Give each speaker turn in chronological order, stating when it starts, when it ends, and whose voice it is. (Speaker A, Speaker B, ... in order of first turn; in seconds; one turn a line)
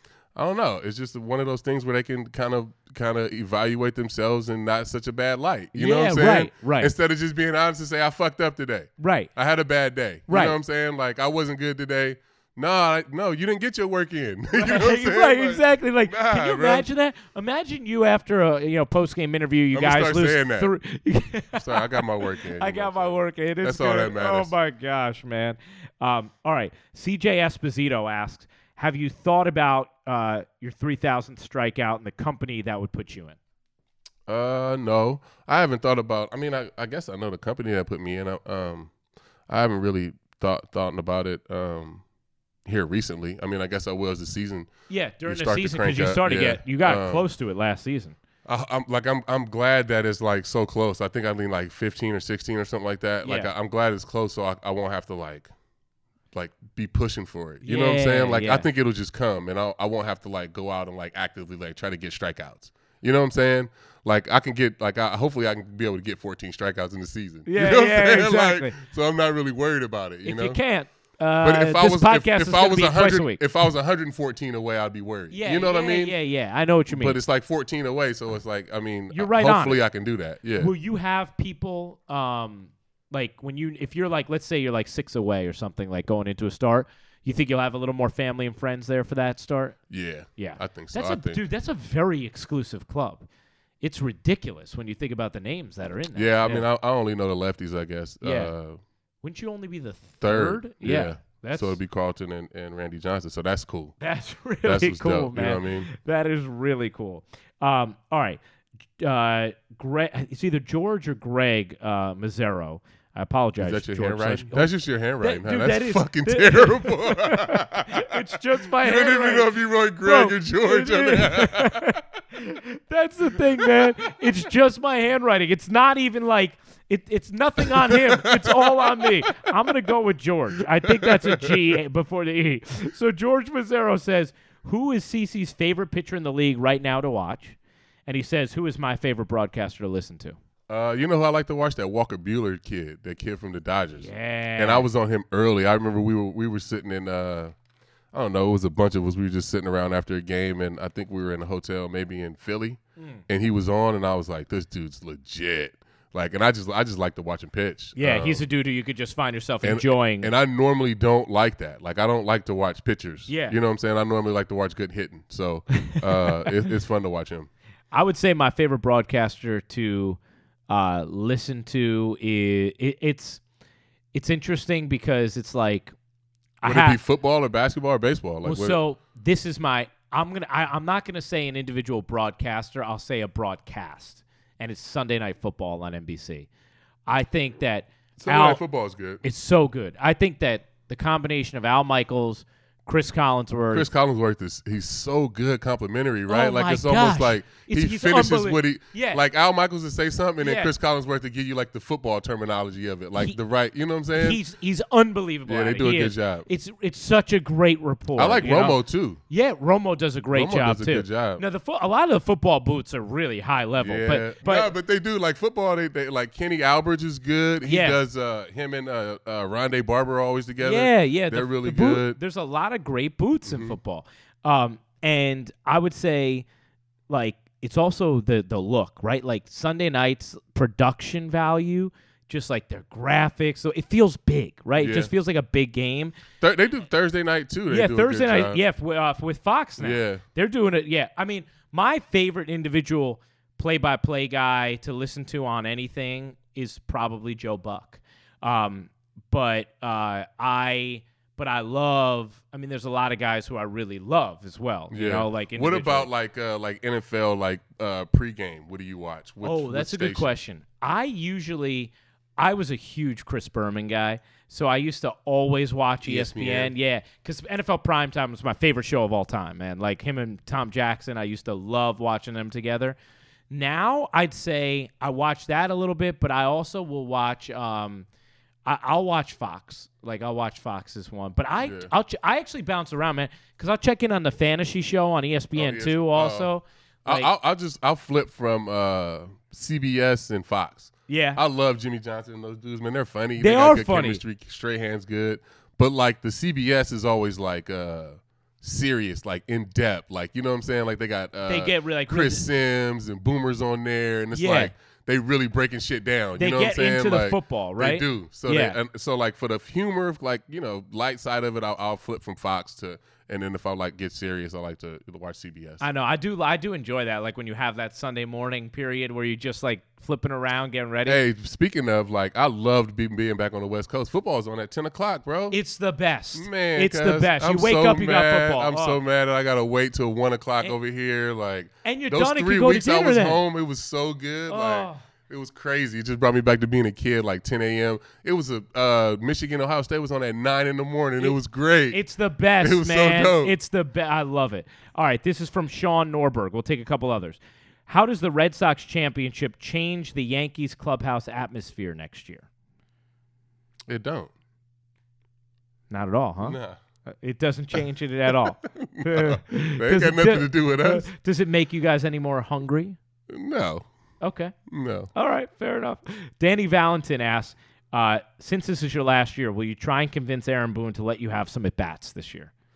Speaker A: 0.3-16.9
Speaker B: 5.7-6.9
Speaker B: 9.0-9.3
Speaker B: 10.3-10.6
Speaker B: 14.6-33.4
Speaker A: 19.7-20.7
Speaker A: 21.6-24.5
Speaker A: 34.3-38.9
Speaker A: 39.5-42.0
Speaker A: 42.6-44.7
Speaker B: 44.9-48.1
Speaker A: 45.2-47.2
Speaker A: 48.5-55.5
Speaker B: 53.2-53.5
Speaker A: 56.3-70.6
Speaker B: 57.6-58.6
Speaker B: 67.5-68.8
Speaker B: 70.2-73.4
Speaker A: 71.4-76.2
Speaker B: 75.3-77.2
Speaker A: 76.9-80.7
Speaker B: 79.1-79.8
Speaker B: 80.6-89.8
Speaker A: 89.9-91.4
Speaker B: 90.4-93.2
Speaker B: 93.8-96.6
Speaker A: 96.1-98.8
Speaker B: 98.2-98.5
Speaker B: 99.2-101.8
Speaker A: 100.2-104.0
Speaker B: 104.0-108.4
Speaker A: 104.6-105.9
Speaker B: 109.0-137.6
Speaker A: 113.6-118.2
Speaker A: 118.8-122.0
Speaker A: 127.8-129.2
Speaker A: 130.9-131.5
Speaker B: 138.1-140.4
Speaker A: 140.7-147.5
Speaker B: 144.0-144.9
Speaker A: 148.1-158.4
Speaker B: 157.9-160.3
Speaker A: 159.6-167.5
Speaker B: 163.3-163.6
Speaker B: 165.8-166.3
Speaker B: 167.9-173.4
Speaker B: 174.1-175.9
Speaker B: 176.6-177.0
Speaker A: 176.6-178.8
Speaker B: 178.4-186.5
Speaker B: 187.1-188.6
Speaker A: 188.2-189.2
Speaker B: 189.2-193.9
Speaker A: 193.7-204.4
Speaker B: 196.3-199.2
Speaker B: 200.4-200.7
Speaker B: 204.1-208.8
Speaker A: 205.5-206.5
Speaker A: 208.2-209.2
Speaker B: 209.3-214.7
Speaker A: 210.3-211.4
Speaker A: 213.8-222.2
Speaker B: 217.6-218.0
Speaker B: 220.6-226.4
Speaker A: 223.4-223.8
Speaker B: 227.1-236.1
Speaker A: 234.8-235.1
Speaker A: 236.4-238.6
Speaker B: 237.7-256.1
Speaker A: 239.8-240.2
Speaker A: 254.9-260.3
Speaker B: 259.4-273.0
Speaker A: 266.0-266.7
Speaker B: 273.5-278.1
Speaker B: 278.6-287.3
Speaker A: 281.6-281.9
Speaker A: 285.5-286.5
Speaker A: 287.0-315.8
Speaker B: 291.1-291.4
Speaker B: 293.4-294.2
Speaker B: 301.5-302.4
Speaker B: 304.3-304.7
Speaker B: 306.4-308.8
Speaker B: 315.8-321.2
Speaker A: 321.1-325.6
Speaker B: 325.5-329.0
Speaker A: 326.3-342.0
Speaker B: 331.8-333.4
Speaker B: 334.5-335.0
Speaker B: 341.9-352.4
Speaker A: 342.6-343.5
Speaker A: 353.9-354.3
Speaker B: 355.9-363.0
Speaker A: 356.4-356.8
Speaker A: 358.6-361.1
Speaker A: 363.3-363.8
Speaker B: 364.2-364.5
Speaker A: 364.7-365.1
Speaker B: 365.1-372.5